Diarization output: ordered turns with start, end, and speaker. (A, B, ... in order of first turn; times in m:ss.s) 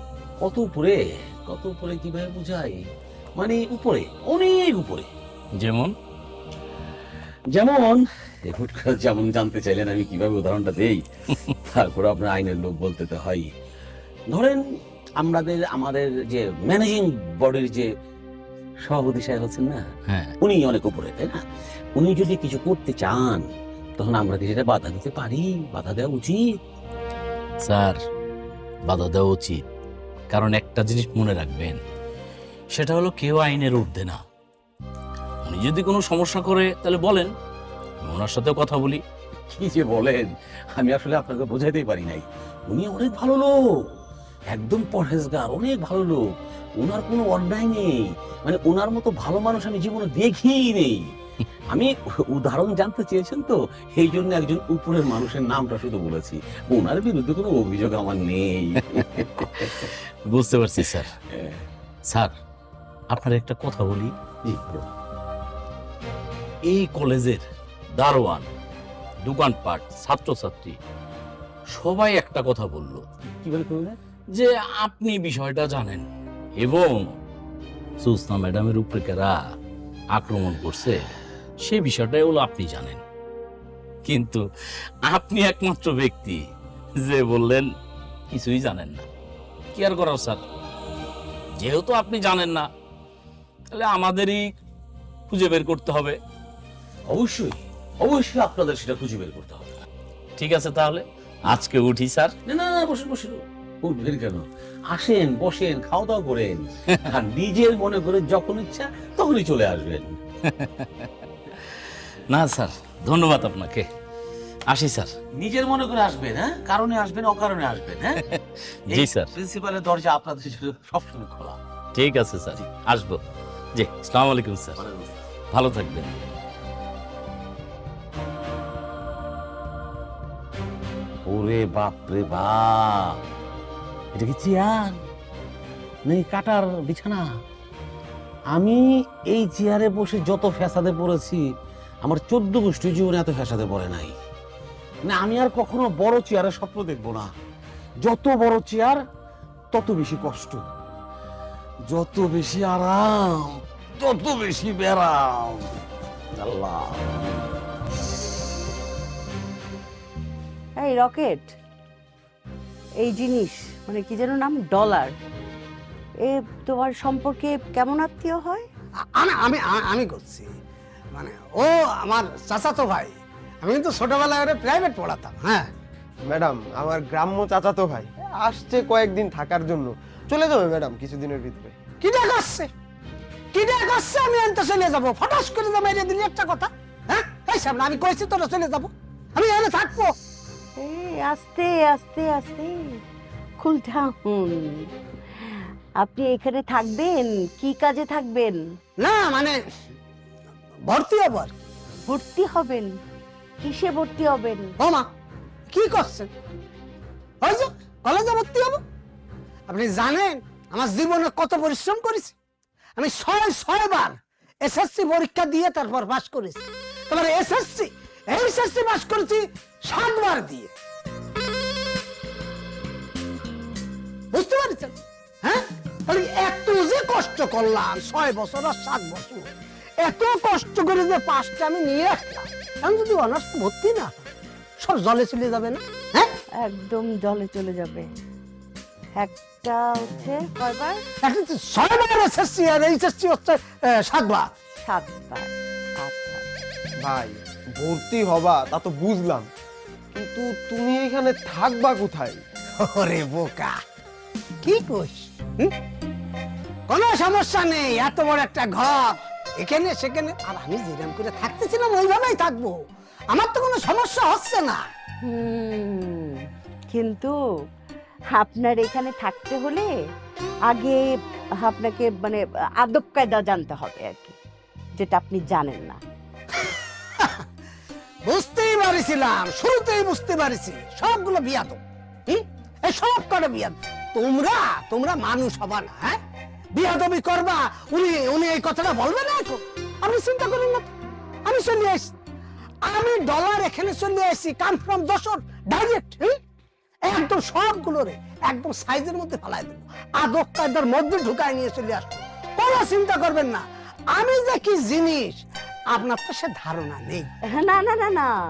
0:00.4-0:02.8 A
0:03.4-0:05.1 A
0:05.6-0:06.0 B
0:07.5-0:13.5 A
0:14.3-0:14.6 A
0:15.2-0:17.9 A
0:18.8-0:19.8 A
0:20.1-0:20.4 B
0:20.4-0:21.4 A
0:22.0-0:23.4 A
0:24.0-0:26.4 A
0:27.6-0:28.0 B
0:28.9-0:29.6 B
0:30.3-0:31.8 B
0:32.7-0:34.2 B
0:35.4-0:37.3 B
0:38.0-0:39.0 B
0:39.5-0:43.6 A
0:44.5-0:51.1 A
0:51.7-0:59.9 A
1:00.3-1:01.1 B
1:00.8-1:01.6 A
1:02.1-1:02.3 B
1:03.1-1:04.2 B
1:04.4-1:04.9 A
1:06.6-1:08.5 B
1:09.2-1:10.8 B
1:11.7-1:13.0 B
1:13.3-1:14.0 A
1:14.3-1:16.1 B
1:16.6-1:17.2 B
1:18.0-1:19.4 B
1:20.1-1:21.0 B
1:21.6-1:23.0 B
1:24.0-1:24.4 B
1:25.0-1:26.4 B
1:27.0-1:27.7 B
1:28.3-1:29.1 B
1:29.7-1:30.4 B
1:31.6-1:32.7 B
1:33.7-1:34.5 B
1:35.3-1:36.2 B
1:37.1-1:39.8 A
1:40.4-1:42.4 B
1:42.5-1:50.2 A
1:52.3-1:53.9 B
1:54.7-1:55.1 B
1:55.3-1:58.2 A
1:58.9-2:01.6 A
1:58.9-1:59.3 B
2:01.9-2:03.2 B
2:03.8-2:04.8 B
2:04.8-2:05.1 A
2:05.5-2:06.3 B
2:11.3-2:13.2 A
2:14.1-2:15.0 A
2:16.1-2:17.2 A
2:18.5-2:21.4 A
2:22.0-2:24.2 A
2:25.1-2:27.3 A
2:28.0-2:29.0 A
2:29.7-2:30.7 A
2:31.9-2:35.6 A
2:36.4-2:37.4 A
2:40.8-2:41.6 C
2:43.0-2:45.1 C
2:46.3-2:48.7 C
2:49.2-2:50.5 D
2:51.1-2:55.7 D
2:56.3-3:01.8 E
3:02.0-3:02.7 D
3:03.5-3:10.1 D
3:10.8-3:12.8 C
3:13.6-3:14.9 C
3:16.0-3:18.6 C
3:19.0-3:19.6 D
3:20.9-3:21.5 D
3:22.1-3:23.0 C
3:23.6-3:24.7 C
3:24.8-3:25.1 D
3:25.7-3:26.3 D
3:27.4-3:28.8 D
3:29.7-3:32.3 D
3:33.0-3:40.7 D
3:44.3-3:49.5 D
3:50.0-3:54.2 D
3:54.8-3:56.3 D
3:56.6-3:58.1 C
3:59.2-4:01.0 C
4:01.2-4:04.5 D
4:04.8-4:06.5 C
4:07.0-4:09.5 E
4:10.1-4:12.4 E
4:12.8-4:13.8 D
4:14.6-4:15.7 D
4:16.9-4:22.8 D
4:23.3-4:24.8 D
4:25.2-4:27.4 C
4:28.4-4:29.9 C
4:30.7-4:31.0 C
4:31.6-4:34.4 C
4:35.0-4:36.0 C
4:38.3-4:46.2 D
4:46.7-4:50.8 D
4:51.4-4:52.1 D
4:52.9-4:56.4 D
4:57.1-5:07.3 D
5:07.6-5:08.3 C